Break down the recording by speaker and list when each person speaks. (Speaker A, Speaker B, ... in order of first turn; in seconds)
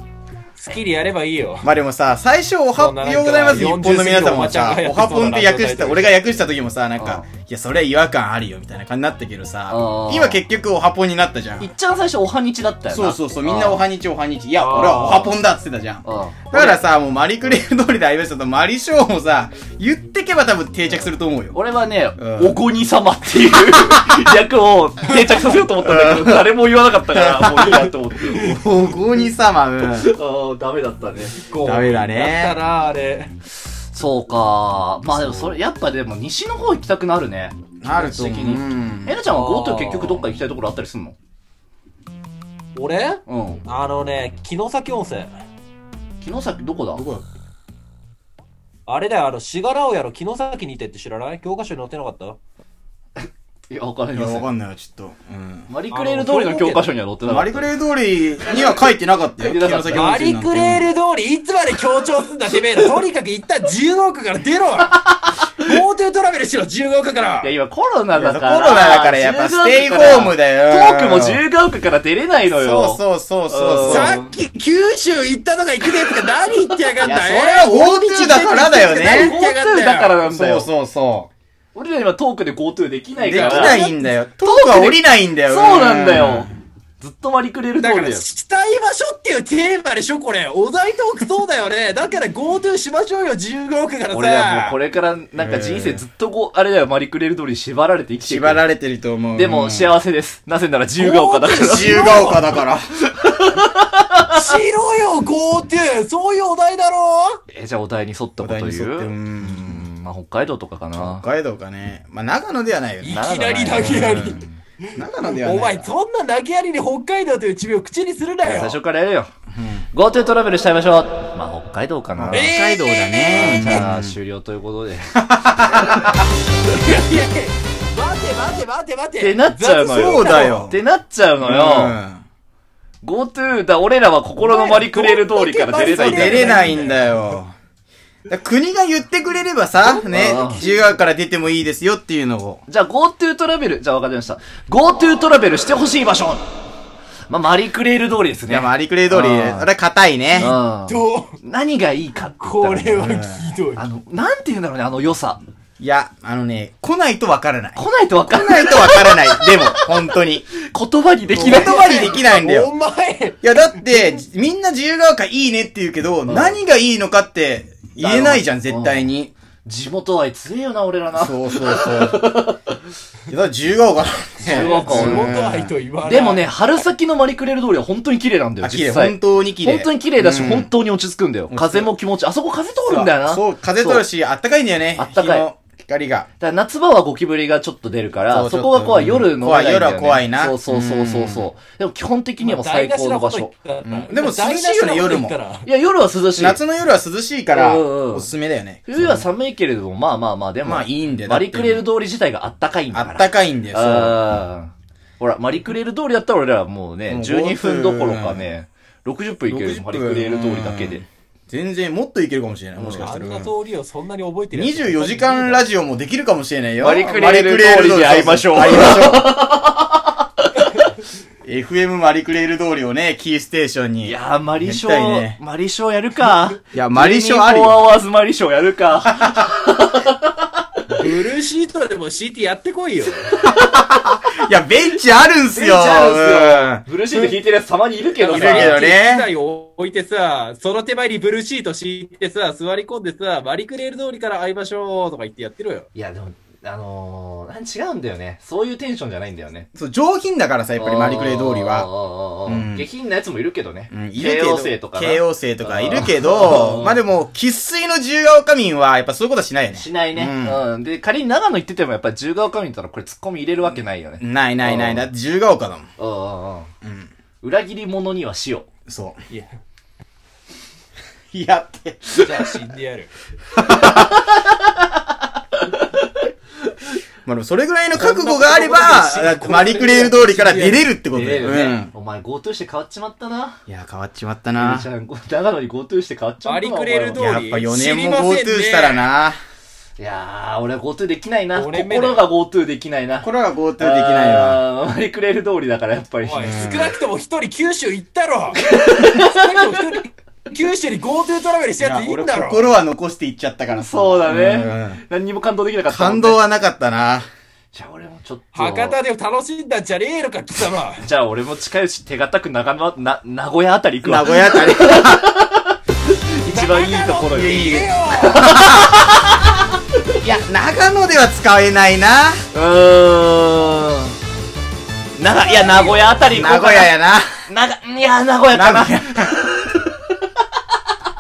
Speaker A: 0.6-1.7, 2.8-6.2, 14.6-15.4, 31.4-33.4, 39.3-40.3, 42.8-45.3, 48.9-52.4, 55.9-56.9, 59.9-67.5, 73.8-77.7, 78.5-80.2, 83.3-84.0, 87.8-94.8, 101.0-102.5, 104.2-107.4, 113.0-114.4, 115.0-118.8, 122.3-123.9, 126.7-130.6, 134.4-137.0, 150.3-151.3, 152.4-153.8, 161.4-164.1, 174.5-176.5, 192.4-195.7, 213.0-215.7, 230.9-233.3, 238.2-245.9, 272.1-273.1, 277.9-280.9, 286.4-289.1, 291.5-292.3, 296.2-302.6, 308.6-311.0, 316.5-318.6, 325.5-326.0
Speaker B: 1.6-11.7, 12.9-21.6, 22.2-22.6, 25.8-26.5, 27.1-30.1, 31.6-32.6, 35.1-35.4, 37.8-39.2, 46.9-47.2, 54.1-55.7, 57.2-60.9, 68.2-71.4, 72.5-74.2, 77.0-79.3, 80.2-81.3, 83.2-86.5, 95.4-96.0, 98.2-99.9, 101.5-102.9, 108.4-109.9, 111.0-114.4, 115.0-115.9, 119.5-119.9, 122.2-124.2, 125.2-126.2, 129.8-130.8, 131.4-132.2, 135.8-137.5, 138.3-142.6, 148.5-150.5, 152.9-153.5, 155.8-157.8, 158.3-160.5, 161.3-162.7, 163.4-169.3, 171.1-172.5, 173.3-175.7, 178.6-180.7, 181.5-181.9, 182.9-186.3, 188.3-191.5, 193.8-195.3, 196.3-199.3, 200.6-201.9, 202.9-204.4, 207.1-208.5, 209.5-213.5, 214.5-219.4, 221.4-225.4, 226.7-227.9, 229.1-229.5, 233.4-237.3, 238.2-239.3, 249.8-251.9, 252.5-252.9, 253.9-260.6, 264.2-265.9, 266.8-267.1, 268.9-269.2, 271.3-272.5, 273.5-274.2, 277.2-281.9, 283.7-284.9, 287.1-289.4, 293.2-294.6, 296.4-297.0, 301.8-305.0, 305.9-307.3, 314.0-315.4, 318.3-319.1, 320.2-322.4, 326.3-327.5, 328.5-329.5
Speaker C: 7.0-7.2, 9.7-10.4, 11.6-13.8, 16.1-16.8, 21.5-28.7, 29.8-31.4, 33.9-41.2, 43.3-43.6, 46.2-47.0, 53.2-54.5, 55.7-57.7, 59.4-60.1, 65.2-65.6, 67.4-74.3, 76.5-80.7, 81.7-83.9, 84.4-86.5, 87.0-88.3, 94.1-98.6, 99.3-102.3, 103.1-104.4, 107.5-111.2, 113.1-114.6, 118.4-119.3, 119.9-122.5, 123.4-125.2, 129.2-132.0, 133.0-136.6, 140.0-140.6, 142.7-146.4, 147.3-149.7, 150.4-153.2, 153.8-155.4, 157.8-159.9, 160.7-161.9, 166.3-166.6, 168.0-169.1, 169.7-172.7, 174.4-175.3, 176.0-184.1, 185.0-185.5, 186.4-193.5, 195.7-196.6, 197.5-198.3, 198.9-211.0, 212.8-213.1, 216.8-220.7, 224.0-230.5, 235.5-238.8, 245.9-249.7, 250.8-257.0, 259.7-265.1, 266.0-266.7, 267.4-268.7, 275.6-276.1, 281.1-283.6, 284.6-287.2, 290.0-296.6, 298.6-299.8, 303.7-306.4, 307.7-309.0, 311.0-320.1, 322.5-324.1, 325.2-326.9, 327.5-330.1